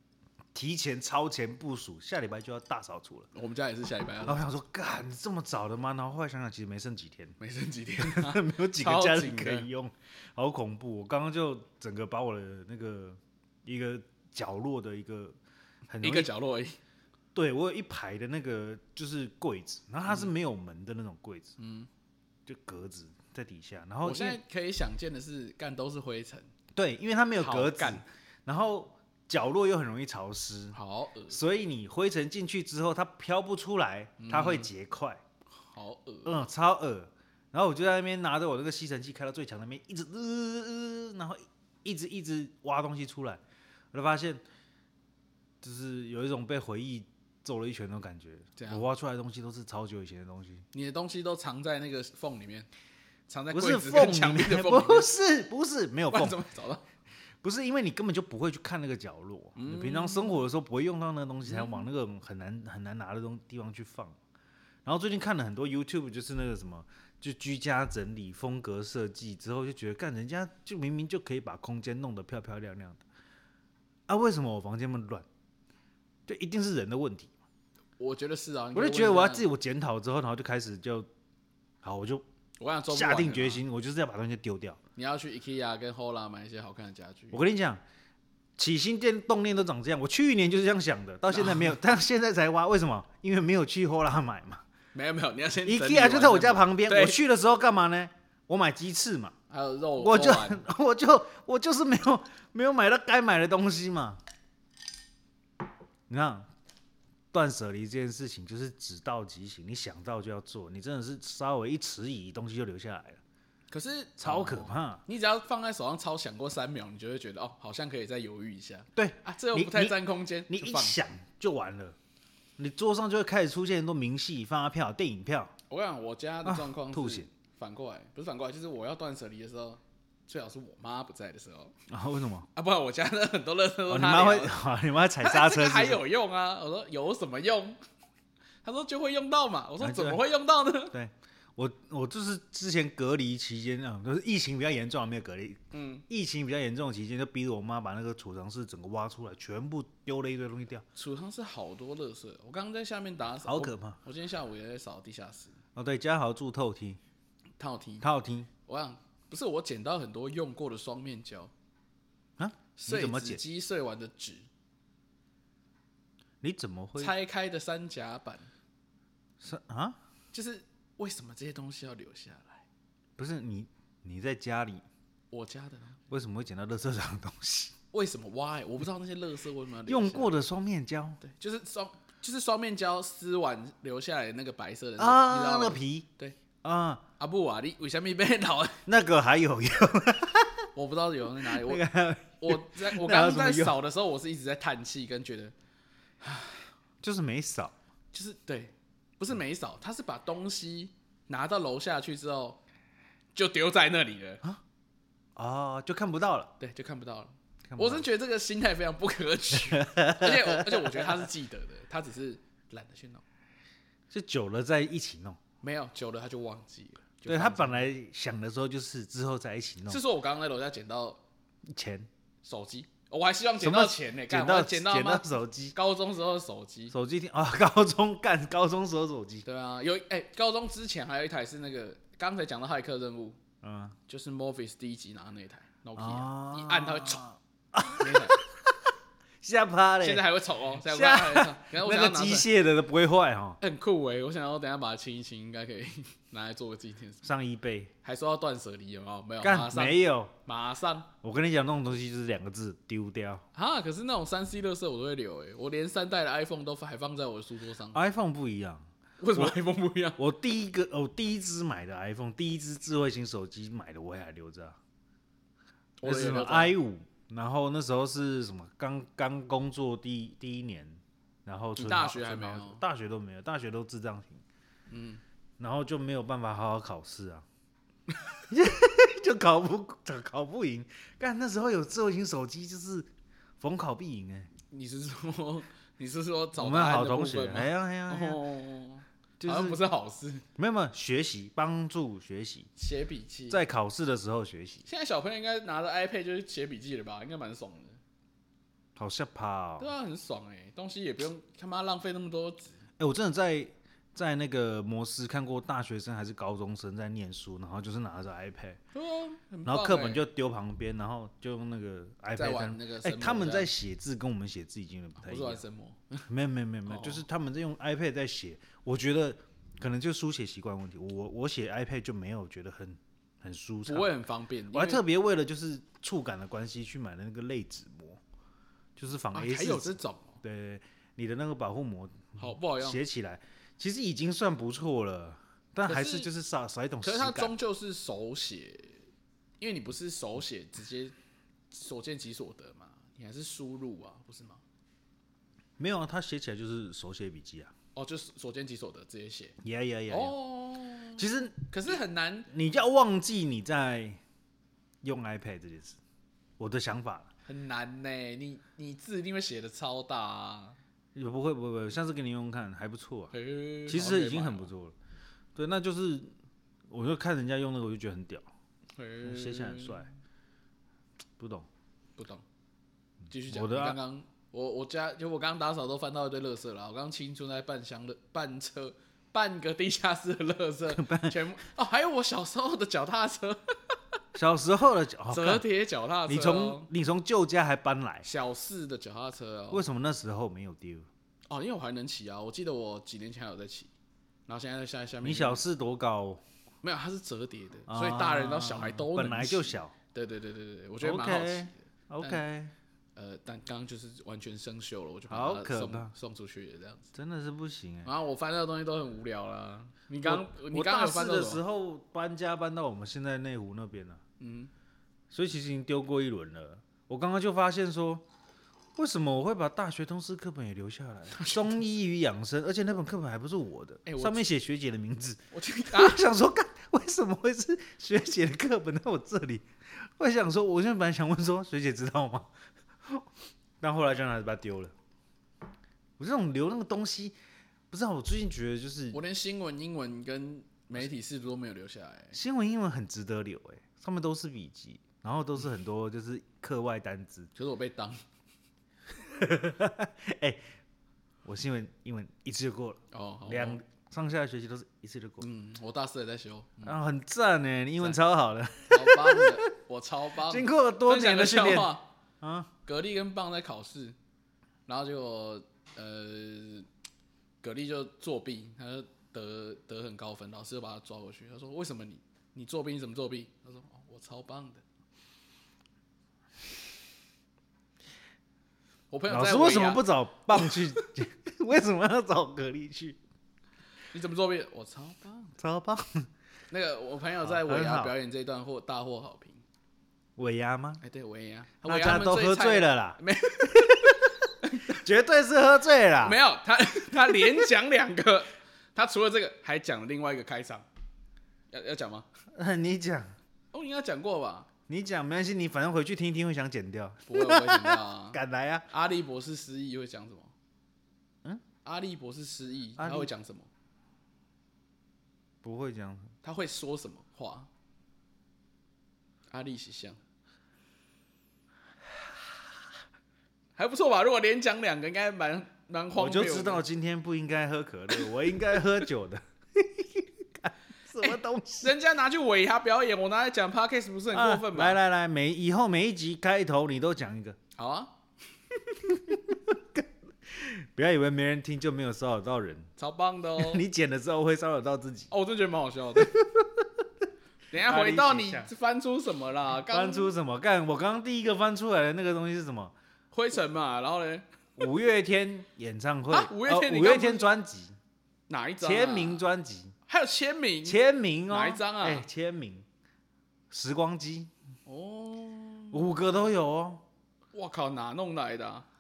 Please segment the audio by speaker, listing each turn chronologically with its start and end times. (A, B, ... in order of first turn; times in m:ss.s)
0:00.5-0:03.3 A
0:03.4-0:04.4 B
0:04.3-0:07.4 A
0:07.4-0:09.7 B
0:08.0-0:16.3 A
0:16.0-0:16.8 B
0:17.4-0:21.6 A
0:21.6-0:21.9 B
0:22.5-0:24.4 A
0:24.0-0:26.5 B
0:26.8-0:30.8 A
0:27.4-0:28.0 B
0:30.7-0:31.4 B
0:31.3-0:35.2 A
0:34.2-0:34.7 B
0:35.6-0:36.5 B
0:36.2-0:43.4 A
0:43.9-0:44.4 A
0:45.6-0:50.7 A
0:48.6-0:48.8 B
0:50.7-0:52.7 B
0:53.3-0:55.1 B
0:53.5-0:56.4 A
0:56.1-0:56.8 B
0:57.4-1:04.2 A
0:59.6-1:00.4 B
1:01.5-1:01.8 B
1:04.8-1:13.0 A
1:14.1-1:15.3 A
1:16.3-1:17.3 A
1:18.0-1:19.5 B
1:18.7-1:21.1 A
1:21.8-1:22.2 A
1:22.6-1:23.6 B
1:22.9-1:24.8 A
1:25.0-1:27.4 B
1:27.3-1:27.8 A
1:28.6-1:34.6 A
1:31.3-1:31.8 B
1:34.9-1:37.2 B
1:35.6-1:39.4 A
1:39.5-1:40.6 B
1:40.0-1:44.2 A
1:46.1-1:46.5 A
1:47.3-1:53.2 A
1:53.7-2:01.0 B
1:54.2-1:55.0 A
1:59.0-2:00.0 A
2:00.5-2:02.0 A
2:02.6-2:05.5 A
2:05.7-2:11.7 B
2:06.4-2:07.3 A
2:11.9-2:12.5 A
2:12.6-2:14.6 B
2:13.9-2:16.0 A
2:15.2-2:17.8 B
2:18.6-2:21.0 B
2:19.8-2:20.2 A
2:20.9-2:30.8 A
2:25.7-2:26.0 B
2:31.0-2:35.6 B
2:33.4-2:34.0 A
2:35.8-2:37.0 A
2:37.6-2:38.1 B
2:38.0-2:38.5 A
2:38.7-2:41.5 B
2:42.4-2:43.4 A
2:42.8-2:44.5 B
2:46.4-2:47.1 A
2:47.0-2:48.5 B
2:49.4-2:50.0 A
2:50.3-2:52.6 B
2:53.2-2:54.8 A
2:55.3-2:56.0 B
2:56.1-2:57.7 A
2:57.9-3:00.3 B
2:59.9-3:01.2 A
3:01.2-3:06.4 B
3:05.0-3:06.1 A
3:06.6-3:07.0 A
3:07.2-3:08.8 B
3:08.9-3:10.7 A
3:10.8-3:11.8 B
3:11.4-3:13.8 A
3:12.4-3:15.5 B
3:16.2-3:16.6 B
3:17.0-3:17.7 A
3:18.1-3:22.6 B
3:23.4-3:24.4 B
3:25.4-3:26.5 A
3:26.6-3:33.2 B
3:27.7-3:28.0 A
3:29.6-3:31.3 A
3:34.1-3:35.4 A
3:35.6-3:37.9 B
3:37.3-3:40.0 A
3:39.9-3:41.2 B
3:41.7-3:42.1 A
3:42.4-3:46.9 B
3:43.6-3:45.8 A
3:46.9-3:49.4 A
3:49.4-3:53.4 B
3:53.6-3:54.0 A
3:54.1-3:57.2 B
3:56.0-3:58.6 A
3:58.0-3:58.4 B
3:59.4-4:00.2 A
4:00.0-4:02.5 B
4:00.8-4:03.6 A
4:03.6-4:07.3 B
4:07.2-4:07.9 A
4:08.0-4:11.1 B
4:09.4-4:10.3 A
4:11.2-4:13.4 A
4:13.5-4:18.0 B
4:17.9-4:19.6 A
4:19.2-4:20.2 B
4:20.2-4:24.8 A
4:26.0-4:26.8 B
4:26.0-4:34.4 A
4:31.8-4:32.8 B
4:34.9-4:35.2 B
4:35.6-4:37.5 A
4:38.5-4:44.5 A
4:44.7-4:50.4 B
4:46.6-4:48.4 A
4:49.4-4:49.8 A
4:50.6-4:52.7 A
4:52.8-4:53.6 B
4:53.5-4:54.9 A
4:54.9-4:58.0 B
4:59.0-4:59.9 A
4:59.8-5:02.8 B
5:03.0-5:08.8 A
5:08.9-5:10.2 B
5:09.7-5:15.6 A
5:12.4-5:13.7 B
5:15.2-5:16.3 B
5:16.3-5:24.1 A
5:16.9-5:17.2 B
5:23.9-5:25.0 B
5:24.7-5:28.2 A
5:29.0-5:37.5 A
5:29.3-5:30.4 B
5:32.4-5:33.0 B
5:35.9-5:36.3 B
5:37.0-5:39.0 B
5:39.6-5:41.1 B
5:41.7-5:44.6 B
5:45.8-5:47.7 A
5:48.0-5:49.6 B
5:49.6-5:50.4 A
5:50.1-5:52.5 B
5:51.2-5:51.6 A
5:52.5-5:54.2 A
5:55.0-5:56.0 A
5:56.6-5:57.3 A
5:57.5-6:00.8 B
6:01.2-6:03.3 A
6:03.3-6:04.7 B
6:03.9-6:05.0 A
6:05.6-6:06.3 A
6:06.9-6:08.5 A
6:09.0-6:10.1 B
6:09.2-6:10.1 A
6:11.4-6:11.7 A
6:12.2-6:12.4 B
6:13.3-6:24.0 B
6:13.5-6:14.0 A
6:20.9-6:21.4 A
6:24.4-6:25.6 A
6:25.3-6:26.9 B
6:26.3-6:28.3 A
6:28.2-6:29.8 B
6:29.7-6:31.1 A
6:31.5-6:33.9 B
6:34.5-6:35.6 B
6:35.2-6:36.4 A
6:36.8-6:42.4 B
6:37.9-6:39.9 A
6:41.0-6:42.7 A
6:43.2-6:47.1 B
6:45.3-6:46.1 A
6:47.1-6:48.1 A
6:48.0-6:51.6 B
6:50.2-6:54.2 A
6:54.4-6:54.7 B
6:55.3-6:58.2 A
6:59.0-7:12.5 A
7:01.3-7:01.8 B
7:04.1-7:04.4 B
7:05.5-7:06.2 B
7:13.0-7:13.3 A
7:13.8-7:14.9 A
7:16.2-7:17.4 A
7:17.9-7:19.2 A
7:19.1-7:22.4 B
7:22.3-7:27.5 A
7:27.6-7:28.2 B
7:29.2-7:30.6 A
7:31.4-7:35.4 A
7:33.1-7:33.8 B
7:35.4-7:37.0 B
7:36.8-7:39.6 A
7:38.9-7:42.1 B
7:40.4-7:42.7 A
7:42.8-7:44.2 B
7:44.9-7:46.9 B
7:47.6-7:54.8 B
7:59.1-8:01.0 B
7:59.3-8:03.2 A
8:04.1-8:05.6 B
8:05.6-8:06.3 A
8:06.7-8:09.6 B
8:07.4-8:08.1 A
8:10.4-8:11.0 A
8:11.0-8:15.0 B
8:11.8-8:16.4 A
8:16.2-8:20.9 B
8:17.2-8:17.6 A
8:21.7-8:22.3 B
8:22.5-8:23.3 A
8:23.7-8:24.7 B
8:24.9-8:28.9 A
8:27.3-8:30.5 B
8:31.8-8:33.7 B
8:33.0-8:33.3 A
8:35.6-8:36.3 A
8:36.4-8:37.7 B
8:39.5-8:40.2 B
8:43.8-8:46.8 B
8:46.2-8:51.9 A
8:51.2-8:55.0 B
8:54.3-8:57.6 A
8:57.8-8:58.1 B
8:59.1-9:02.9 A
9:03.0-9:03.8 B
9:03.6-9:05.3 A
9:05.3-9:06.3 B
9:06.2-9:06.9 A
9:07.7-9:10.3 B
9:07.8-9:08.7 A
9:09.9-9:12.9 A
9:13.3-9:14.4 B
9:14.8-9:18.0 A
9:16.3-9:17.5 B
9:18.5-9:19.4 B
9:18.8-9:19.9 A
9:20.1-9:22.3 B
9:20.8-9:22.9 A
9:23.7-9:24.5 A
9:24.9-9:26.2 B
9:25.9-9:27.0 A
9:27.5-9:28.9 B